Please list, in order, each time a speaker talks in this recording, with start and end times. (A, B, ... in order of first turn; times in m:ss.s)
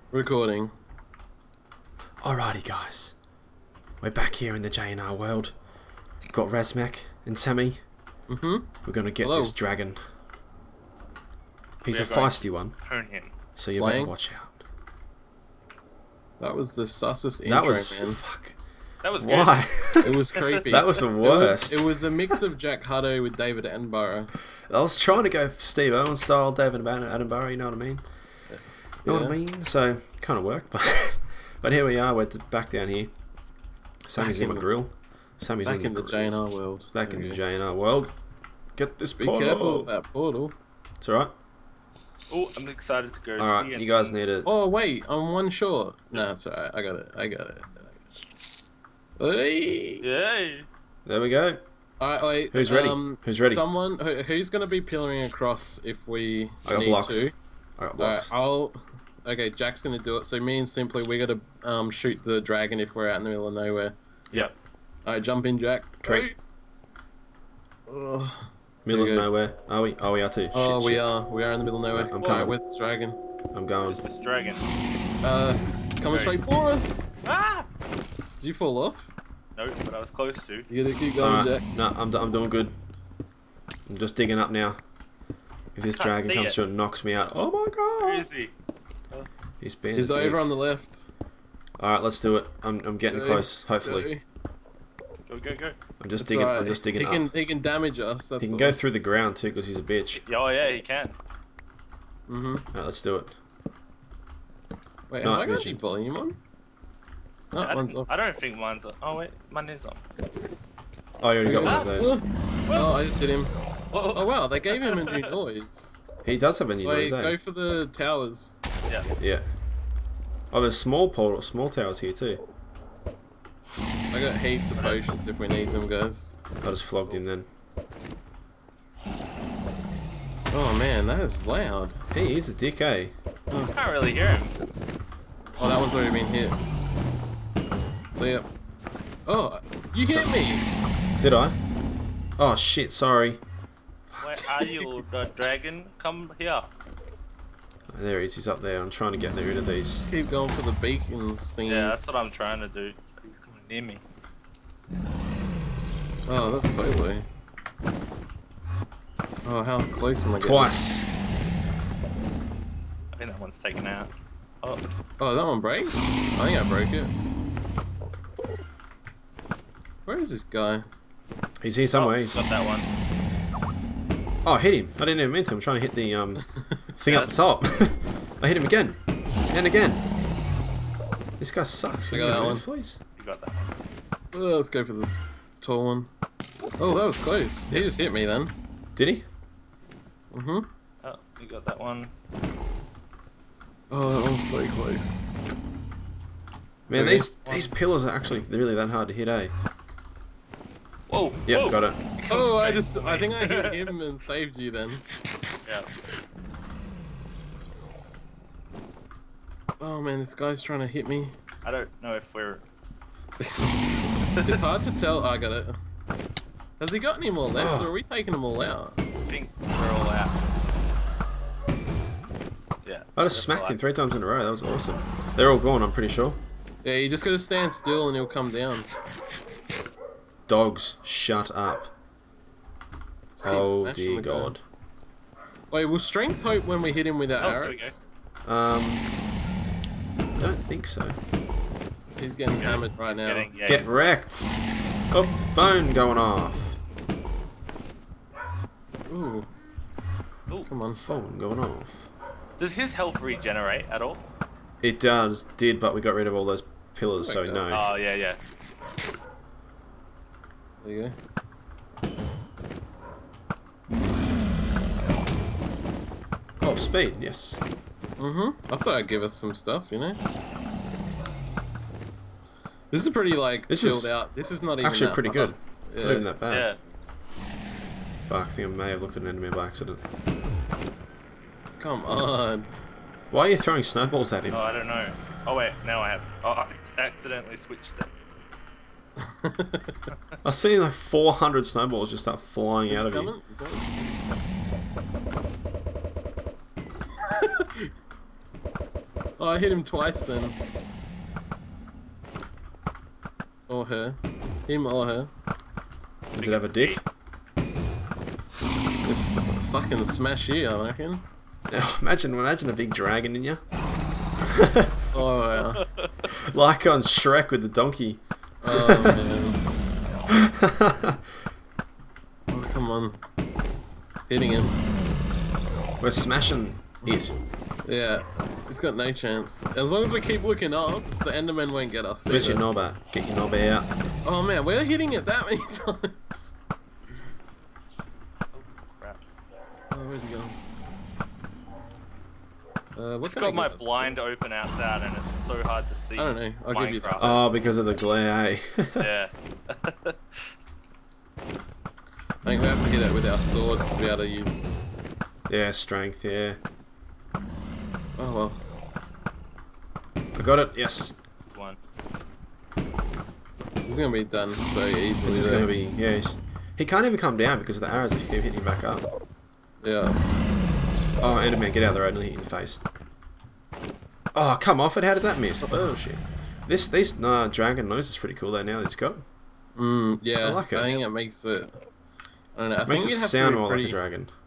0:00.1-0:00.7 A
0:02.2-0:03.1 B
0:04.0-0:05.5 B
0:06.3-0:07.8 B
0:08.3-0:09.6 A
0:08.8-0:10.0 B
0:11.8-0:12.8 B
0:11.9-0:13.3 C
0:13.6-0:14.6 B
0:13.7-0:14.1 A
0:16.4-0:18.2 A
0:17.4-0:18.6 B
0:19.0-0:19.8 C
0:19.2-0:22.0 B
0:20.0-0:24.3 A
0:20.4-0:20.7 C
0:24.7-0:28.0 B
0:28.5-0:29.4 A
0:29.0-0:33.1 B
0:34.0-0:36.4 B
0:34.2-0:34.7 A
0:35.6-0:37.4 A
0:36.9-0:38.2 B
0:38.8-0:39.9 B
0:39.2-0:40.5 A
0:41.0-0:41.3 B
0:42.3-0:44.1 C
0:43.4-0:44.5 B
0:44.4-0:48.0 A
0:49.2-0:50.0 A
0:50.0-0:50.7 C
0:51.0-0:51.6 B
0:52.0-0:57.3 A
0:52.5-0:53.6 B
0:56.6-0:58.3 B
0:58.0-1:03.9 A
1:05.0-1:06.4 A
1:06.0-1:06.3 B
1:07.9-1:09.4 A
1:08.8-1:11.0 B
1:10.5-1:13.2 A
1:11.9-1:12.5 B
1:13.5-1:14.0 B
1:13.8-1:14.6 C
1:15.2-1:17.0 A
1:16.0-1:16.4 C
1:17.2-1:17.7 C
1:18.4-1:19.1 A
1:19.6-1:20.7 C
1:20.7-1:21.8 A
1:21.2-1:22.7 B
1:23.9-1:24.8 B
1:25.7-1:28.3 B
1:26.0-1:26.6 C
1:28.0-1:28.5 C
1:29.6-1:30.5 B
1:29.9-1:31.1 A
1:31.8-1:34.1 B
1:33.1-1:34.2 A
1:35.3-1:35.8 C
1:36.0-1:37.3 B
1:36.2-1:38.8 A
1:38.4-1:40.2 B
1:40.1-1:41.1 C
1:42.3-1:42.6 A
1:42.7-1:43.4 B
1:45.1-1:46.4 A
1:45.2-1:45.8 B
1:47.5-1:48.1 A
1:47.6-1:50.0 C
1:51.2-1:52.2 B
1:51.4-1:53.5 A
1:51.6-1:52.0 C
1:53.9-1:55.2 C
1:54.0-1:56.0 A
1:56.2-1:57.4 B
1:56.8-1:58.6 A
1:59.2-1:59.5 B
2:00.5-2:02.4 B
2:04.1-2:06.3 A
2:06.6-2:07.5 B
2:10.5-2:12.0 A
2:12.1-2:13.1 B
2:13.7-2:14.5 C
2:15.6-2:16.6 A
2:18.1-2:18.5 A
2:19.2-2:20.6 A
2:20.0-2:20.3 B
2:21.2-2:21.6 B
2:22.4-2:23.4 B
2:24.1-2:24.8 B
2:24.2-2:26.7 C
2:27.9-2:30.0 B
2:30.0-2:32.1 A
2:31.6-2:34.0 C
2:36.2-2:37.3 A
2:39.4-2:40.7 A
2:40.4-2:41.0 B
2:43.1-2:44.1 C
2:45.2-2:47.1 A
2:50.0-2:50.8 A
2:51.6-2:52.4 B
2:51.9-2:52.9 C
2:54.4-3:00.0 B
3:01.4-3:03.0 B
3:02.1-3:02.6 A
3:03.2-3:03.7 C
3:04.3-3:06.1 A
3:06.8-3:08.5 A
3:09.0-3:09.2 B
3:10.3-3:10.7 A
3:11.0-3:12.1 C
3:13.9-3:15.3 A
3:16.9-3:19.5 B
3:16.9-3:17.7 A
3:21.1-3:23.9 C
3:21.5-3:22.0 B
3:22.3-3:25.0 A
3:29.8-3:31.3 A
3:31.6-3:32.6 C
3:33.4-3:33.8 A
3:34.4-3:35.8 A
3:36.8-3:39.0 A
3:37.6-3:37.9 B
3:39.2-3:40.4 C
3:42.8-3:43.8 C
3:43.2-3:46.4 B
3:46.8-3:48.9 A
3:50.5-3:51.9 B
3:53.4-3:54.5 A
3:53.4-3:54.6 B
3:55.7-3:58.1 A
3:57.4-3:57.9 C
3:58.4-3:59.1 B
4:00.4-4:01.2 B
4:02.2-4:03.5 A
4:02.6-4:03.9 C
4:03.6-4:04.4 B
4:05.1-4:06.8 B
4:09.1-4:09.5 A
4:10.7-4:11.0 A
4:10.9-4:12.1 B
4:12.6-4:14.2 C
4:14.8-4:17.9 B
4:17.2-4:17.6 A
4:17.7-4:18.4 C
4:20.8-4:21.2 A
4:26.6-4:27.6 B
4:28.2-4:30.2 A
4:32.9-4:36.3 A
4:33.7-4:34.2 B
4:34.8-4:36.7 B
4:36.5-4:36.8 C
4:38.2-4:40.0 B
4:41.8-4:42.7 A
4:43.3-4:44.7 B
4:44.5-4:48.1 C
4:49.2-4:49.9 A
4:50.4-4:53.3 B
4:52.9-4:53.9 A
4:57.2-4:57.9 A
4:59.4-5:00.6 A
5:03.7-5:05.3 A
5:06.3-5:07.0 C
5:06.4-5:07.0 B
5:09.0-5:11.2 A
5:11.7-5:13.6 B
5:14.5-5:14.9 B
5:15.1-5:15.8 A
5:15.5-5:16.3 C
5:16.3-5:19.2 B
5:18.6-5:19.6 A
5:20.3-5:21.1 B
5:22.5-5:23.2 A
5:24.3-5:24.8 A
5:26.0-5:27.3 B
5:27.8-5:32.6 A
5:32.3-5:33.9 B
5:34.2-5:36.5 A
5:38.5-5:39.2 C
5:39.9-5:40.6 A
5:42.9-5:44.2 A
5:43.2-5:47.3 C
5:46.2-5:47.4 A
5:47.2-5:49.1 B
5:49.0-5:50.5 C
5:52.4-5:54.6 A
5:55.5-5:56.6 B
5:58.2-5:58.6 A
6:00.3-6:01.2 B
6:01.5-6:01.8 C
6:03.8-6:05.7 A
6:05.2-6:09.1 B
6:09.8-6:10.2 A
6:11.2-6:12.8 B
6:14.3-6:19.2 B
6:15.6-6:16.0 A
6:19.8-6:21.8 A
6:20.4-6:20.9 B
6:22.5-6:24.0 A
6:22.8-6:24.3 B